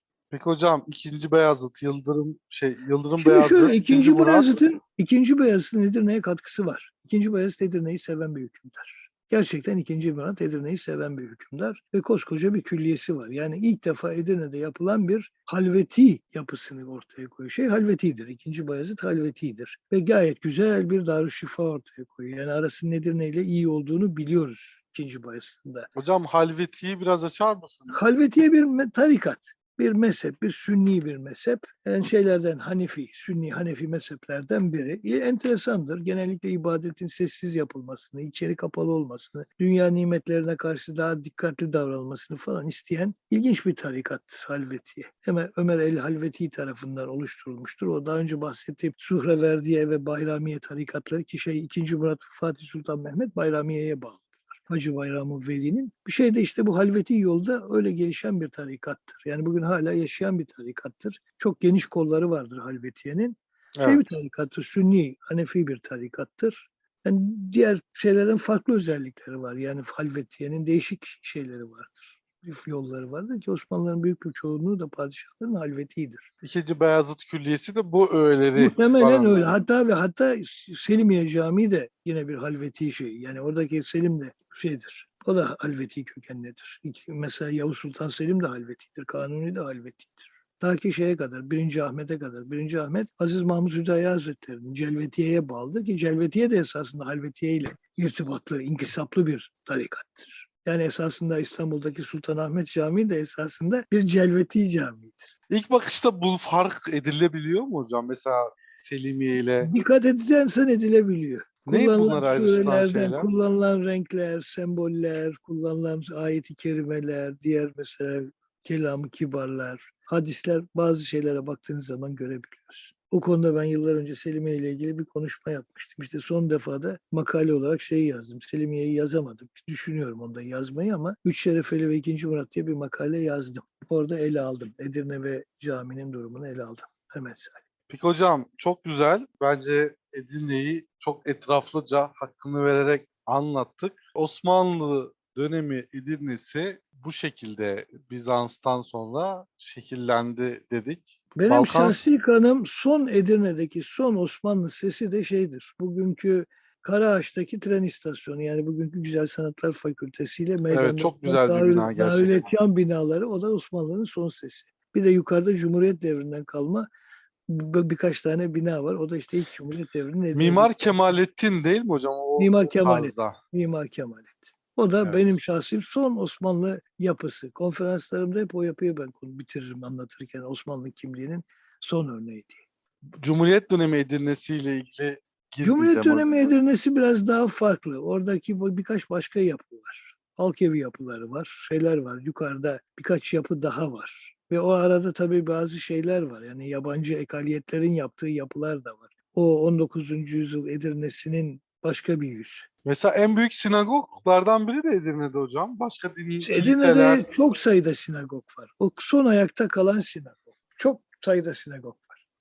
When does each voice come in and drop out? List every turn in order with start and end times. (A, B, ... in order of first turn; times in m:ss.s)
0:00.3-0:04.6 A
0:03.2-0:25.9 B
0:26.0-0:28.0 A
0:27.9-1:16.3 B
1:03.8-1:04.1 A
1:16.4-1:19.6 A
1:18.6-1:45.3 B
1:45.5-1:49.7 A
1:49.6-2:17.6 B
1:51.7-1:53.3 A
2:17.9-2:32.0 A
2:31.4-2:46.9 B
2:40.7-2:42.5 A
2:47.5-2:51.2 B
2:50.3-2:53.4 A
2:52.4-3:02.6 B
2:55.0-2:55.3 A
3:03.2-3:06.3 A
3:05.6-3:22.7 B
3:22.8-3:27.3 A
3:26.4-3:32.2 B